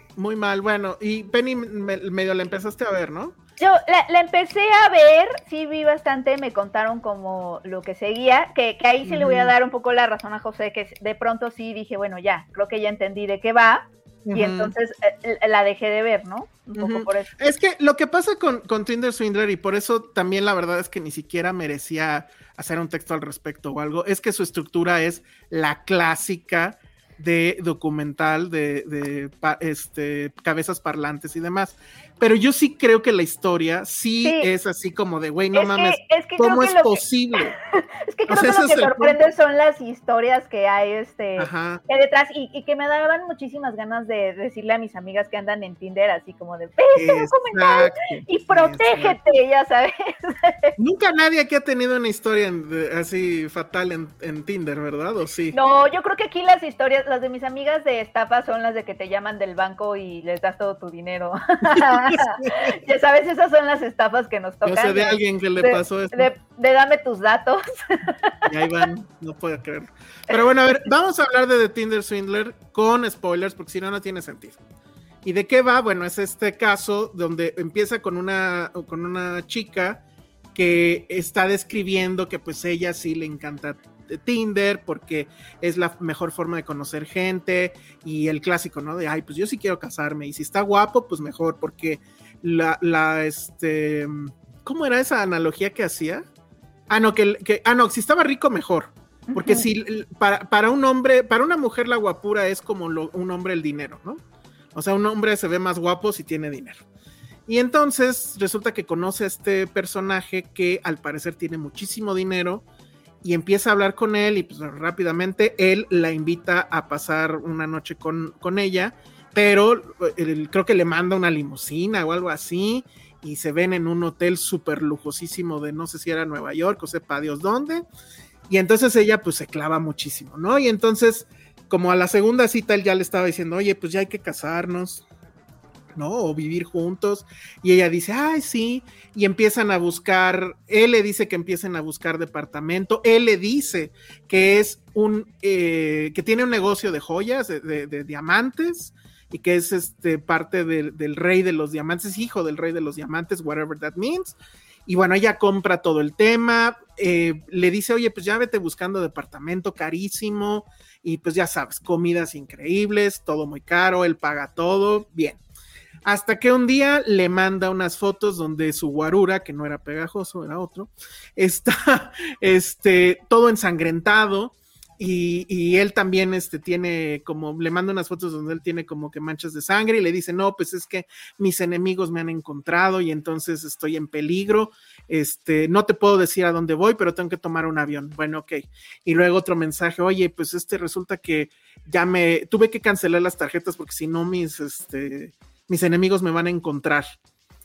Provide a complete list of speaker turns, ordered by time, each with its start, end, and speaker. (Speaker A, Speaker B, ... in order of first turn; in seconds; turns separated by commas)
Speaker A: 0.2-3.4, Speaker B: 3.6-17.4, Speaker A: 9.0-9.5, Speaker A: 14.2-14.7, Speaker A: 16.7-37.5, Speaker B: 34.2-34.5, Speaker B: 35.5-37.0, Speaker B: 37.7-50.7, Speaker A: 38.3-39.2, Speaker A: 41.4-41.8, Speaker A: 46.9-49.2, Speaker A: 50.8-55.5, Speaker B: 55.5-68.5, Speaker A: 61.8-62.7, Speaker A: 64.6-66.3, Speaker A: 68.5-74.6, Speaker A: 75.2-80.0, Speaker A: 80.5-96.2, Speaker A: 96.9-104.2, Speaker B: 99.3-99.7, Speaker A: 104.7-106.8, Speaker A: 107.5-112.6, Speaker A: 113.2-127.8, Speaker A: 128.5-135.0, Speaker A: 135.9-154.3, Speaker A: 154.9-165.4, Speaker A: 166.0-197.1